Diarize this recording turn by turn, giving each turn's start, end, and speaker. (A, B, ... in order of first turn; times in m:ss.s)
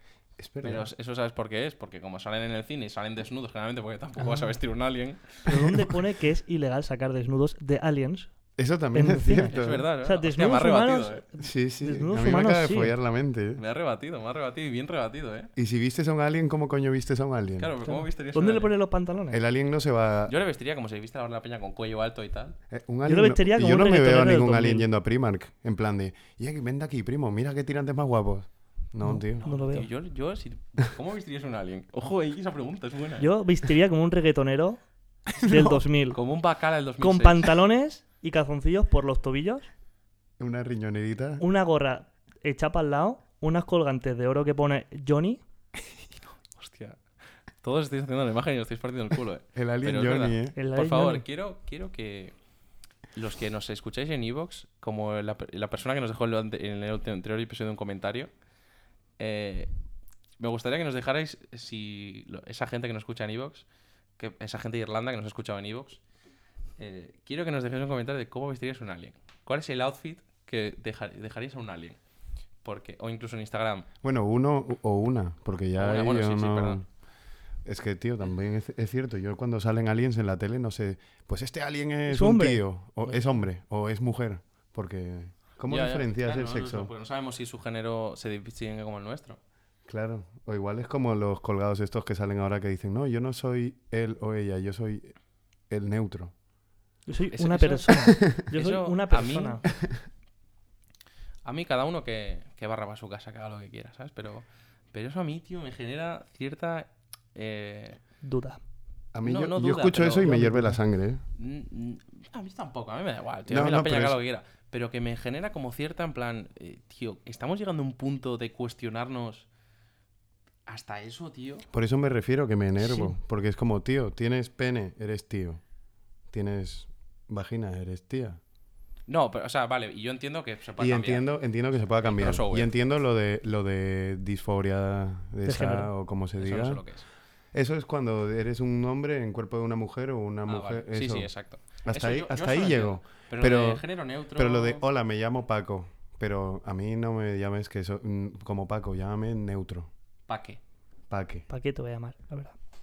0:00.4-0:00.9 A
0:00.6-0:05.8 B
0:04.2-0:04.5 C
0:05.4-0:08.3 C
0:08.6-0:09.9 A
0:08.9-0:12.9 C
0:09.5-0:11.2 B
0:11.4-0:13.6 A
0:13.6-0:15.5 B
0:15.6-0:17.7 A
0:17.6-0:18.7 B
0:17.9-0:19.4 C
0:19.3-0:20.3 A
0:20.2-0:22.6 B
0:22.7-0:29.4 A
0:23.1-0:24.9 C
0:29.0-0:29.9 C
0:29.4-0:33.3 B
0:33.2-0:34.8 C
0:35.4-0:35.8 A
0:35.4-0:36.2 C
0:36.1-0:37.6 B
0:37.0-0:39.7 C
0:40.4-0:41.4 A
0:41.4-0:45.4 C
0:46.5-0:47.0 B
0:47.6-0:52.4 B
0:49.5-0:50.6 A
0:50.6-0:51.2 C
0:53.1-0:58.3 B
0:59.2-0:59.7 B
1:00.4-1:03.6 B
1:04.2-1:06.0 B
1:06.8-1:12.0 B
1:12.6-1:13.9 B
1:14.0-1:16.9 A
1:15.8-1:16.8 B
1:17.6-1:26.9 A
1:22.1-1:22.6 C
1:25.6-1:29.4 B
1:29.9-1:35.1 A
1:35.7-1:36.3 A
1:37.1-1:39.7 C
1:37.3-1:39.6 B
1:38.1-1:38.3 A
1:41.4-1:48.0 B
1:48.2-1:48.6 C
1:49.1-1:51.2 A
1:49.2-1:50.4 B
1:50.2-1:50.8 C
1:51.4-1:59.5 B
1:53.5-1:54.2 A
2:00.6-2:01.7 B
2:01.7-2:05.6 A
2:02.8-2:03.1 C
2:06.3-2:08.4 A
2:09.1-2:11.3 B
2:10.8-2:16.8 A
2:12.0-2:12.7 B
2:15.5-2:15.9 C
2:16.4-2:17.0 B
2:17.5-2:21.3 A
2:20.5-2:24.8 B
2:21.8-2:29.9 A
2:30.3-2:30.6 B
2:31.1-2:31.5 A
2:31.5-2:32.5 C